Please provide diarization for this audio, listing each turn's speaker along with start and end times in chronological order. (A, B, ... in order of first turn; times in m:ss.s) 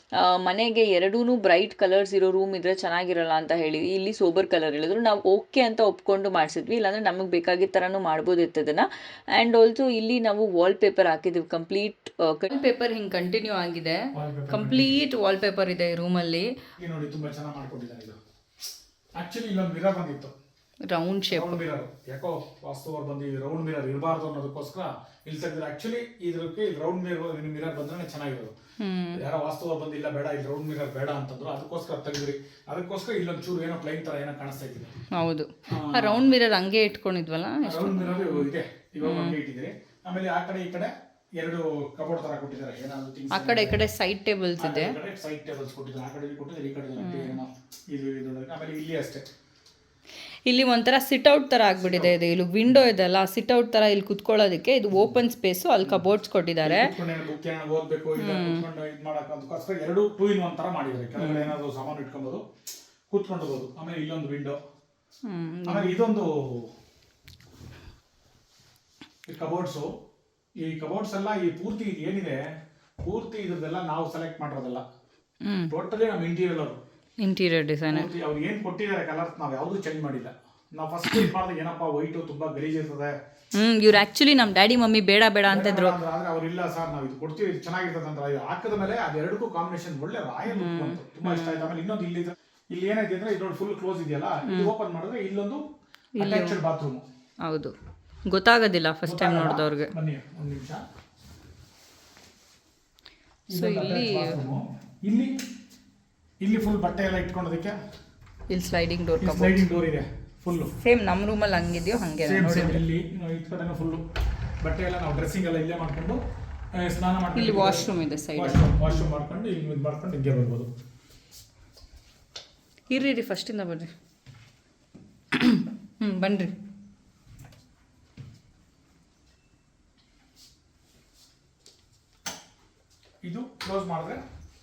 0:00.2-0:12.5 A
0:12.5-0:16.5 B
0:14.1-0:15.0 C
0:16.8-0:18.2 C
0:19.2-0:20.3 C
0:20.9-0:21.6 B
0:21.3-0:28.6 C
0:28.8-0:29.2 B
0:29.1-0:34.9 C
0:35.1-0:38.5 B
0:35.7-0:36.3 C
0:37.6-0:43.8 C
0:39.0-0:39.4 B
0:43.3-0:45.0 B
0:44.6-0:49.3 C
0:47.0-0:47.4 B
0:50.5-0:56.9 B
0:51.8-0:52.2 C
0:56.6-1:02.4 C
0:58.2-0:58.7 B
1:01.2-1:01.5 B
1:03.1-1:04.6 C
1:05.3-1:05.9 B
1:05.7-1:06.7 C
1:09.3-1:10.0 C
1:10.6-1:12.4 C
1:13.0-1:14.8 C
1:15.4-1:15.7 B
1:15.7-1:16.8 C
1:17.2-1:18.1 B
1:17.9-1:23.1 C
1:23.6-1:26.0 B
1:25.5-1:35.6 C
1:30.5-1:31.7 B
1:34.5-1:34.7 B
1:36.2-1:36.6 B
1:36.2-1:37.0 C
1:37.4-1:37.7 B
1:38.3-1:39.9 B
1:39.0-1:40.8 C
1:43.5-1:45.3 C
1:43.5-1:44.4 B
1:46.4-1:47.8 C
1:48.5-1:49.7 B
1:49.2-1:50.7 C
1:50.8-1:52.8 B
1:52.2-1:54.0 C
1:54.6-1:56.2 C
1:56.8-2:00.7 C
1:57.3-1:59.0 B
2:02.9-2:03.9 B
2:05.3-2:06.5 B
2:13.2-2:14.2 C